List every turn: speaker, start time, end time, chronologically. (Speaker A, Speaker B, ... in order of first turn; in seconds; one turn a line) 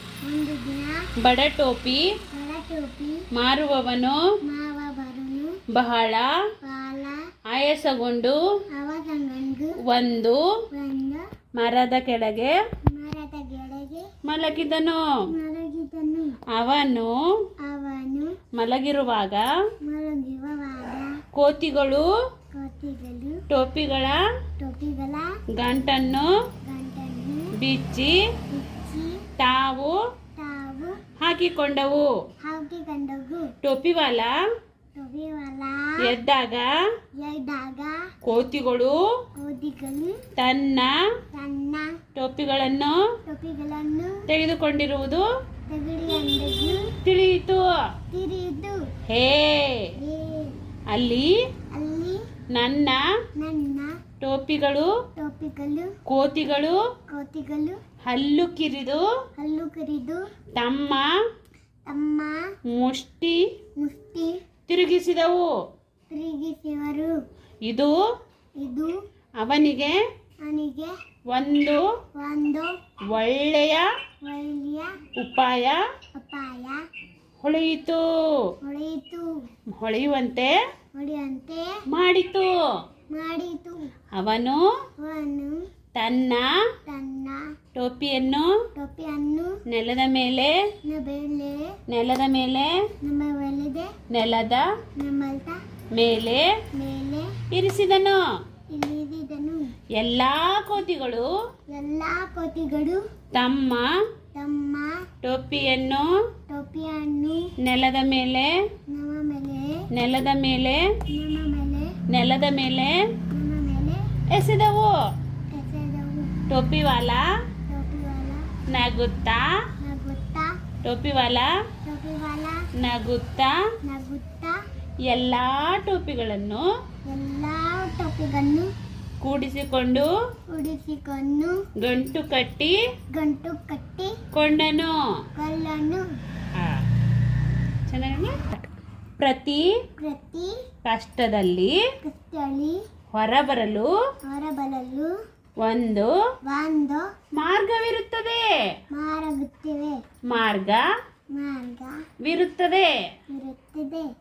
Speaker A: 0.2-1.0
Speaker B: 1.2-2.0
Speaker A: 2.3-3.2
Speaker B: 3.3-4.2
Speaker A: 4.5-5.5
Speaker B: 5.7-6.3
Speaker A: 6.6-7.2
Speaker B: 7.5-8.4
Speaker A: 8.7-9.8
Speaker B: 9.8-10.4
Speaker A: 10.7-11.2
Speaker B: 11.6-12.5
Speaker A: 12.9-14.1
Speaker B: 14.2-15.0
Speaker A: 15.3-16.4
Speaker B: 16.5-17.1
Speaker A: 17.6-18.4
Speaker B: 18.5-19.4
Speaker A: 19.9-21.1
Speaker B: 21.3-22.1
Speaker A: 22.5-23.4
Speaker B: 23.5-24.2
Speaker A: 24.6-25.3
Speaker B: 25.6-26.3
Speaker A: 26.6-27.5
Speaker B: 27.6-28.2
Speaker A: 28.5-29.2
Speaker B: 29.4-29.9
Speaker A: 30.4-31.0
Speaker B: 31.2-32.1
Speaker A: 32.4-33.5
Speaker B: 33.6-34.3
Speaker A: 34.9-36.1
Speaker B: 36.0-36.7
Speaker A: 37.2-38.0
Speaker B: 38.2-39.0
Speaker A: 39.4-40.2
Speaker B: 40.4-40.9
Speaker A: 41.3-42.0
Speaker B: 42.1-43.0
Speaker A: 43.2-44.2
Speaker B: 44.3-45.2
Speaker A: 45.7-46.9
Speaker B: 47.0-47.7
Speaker A: 48.1-48.8
Speaker B: 49.1-49.9
Speaker A: 50.0-50.6
Speaker B: 50.9-51.3
Speaker A: 51.7-52.2
Speaker B: 52.5-53.0
Speaker A: 53.4-53.9
Speaker B: 54.2-54.9
Speaker A: 55.2-55.9
Speaker B: 56.1-56.8
Speaker A: 57.1-57.8
Speaker B: 58.0-59.0
Speaker A: 59.4-60.2
Speaker B: 60.5-61.1
Speaker A: 61.9-62.4
Speaker B: 62.7-63.4
Speaker A: 63.8-64.4
Speaker B: 64.7-65.5
Speaker A: 66.1-67.1
Speaker B: 67.6-67.9
Speaker A: 68.6-68.9
Speaker B: 69.4-70.0
Speaker A: 70.4-70.9
Speaker B: 71.3-71.9
Speaker A: 72.1-72.7
Speaker B: 73.1-73.9
Speaker A: 74.2-75.0
Speaker B: 75.2-75.8
Speaker A: 76.1-76.8
Speaker B: 77.4-78.0
Speaker A: 78.6-79.3
Speaker B: 79.8-80.5
Speaker A: 81.0-81.7
Speaker B: 81.9-82.5
Speaker A: 83.1-83.9
Speaker B: 84.1-84.6
Speaker A: 85.0-85.6
Speaker B: 85.9-86.5
Speaker A: 86.9-87.5
Speaker B: 87.7-88.5
Speaker A: 88.8-89.5
Speaker B: 89.7-90.5
Speaker A: 90.8-91.8
Speaker B: 91.9-92.8
Speaker A: 93.0-93.9
Speaker B: 94.1-94.7
Speaker A: 95.0-95.6
Speaker B: 95.9-96.5
Speaker A: 96.7-97.3
Speaker B: 97.5-98.2
Speaker A: 98.7-99.7
Speaker B: 100.0-101.3
Speaker A: 101.7-103.0
Speaker B: 103.3-103.9
Speaker A: 104.3-105.0
Speaker B: 105.2-106.1
Speaker A: 106.5-107.5
Speaker B: 107.6-108.5
Speaker A: 108.9-109.8
Speaker B: 109.9-110.8
Speaker A: 111.1-112.0
Speaker B: 112.1-113.0
Speaker A: 113.3-114.0
Speaker B: 114.3-114.9
Speaker A: 115.5-116.4
Speaker B: 116.5-117.2
Speaker A: 117.7-118.5
Speaker B: 118.7-119.5
Speaker A: 119.8-120.5
Speaker B: 120.8-121.5
Speaker A: 121.8-122.7
Speaker B: 122.8-123.6
Speaker A: 123.8-124.5
Speaker B: 125.1-126.7
Speaker A: 127.1-128.7
Speaker B: 129.2-130.1
Speaker A: 130.5-131.6
Speaker B: 131.8-132.8
Speaker A: 133.1-134.1
Speaker B: 134.3-135.0
Speaker A: 135.4-136.1
Speaker B: 136.5-136.8
Speaker B: 137.9-138.6
Speaker B: 139.2-139.7
Speaker A: 140.0-140.5
Speaker B: 140.8-141.8
Speaker A: 142.0-142.8
Speaker B: 143.1-143.9
Speaker A: 144.3-145.1
Speaker B: 145.6-146.1
Speaker A: 146.4-147.1
Speaker B: 147.3-148.5
Speaker A: 148.9-150.0
Speaker B: 150.3-150.8
Speaker A: 151.3-152.0
Speaker B: 152.2-152.9
Speaker A: 153.3-154.1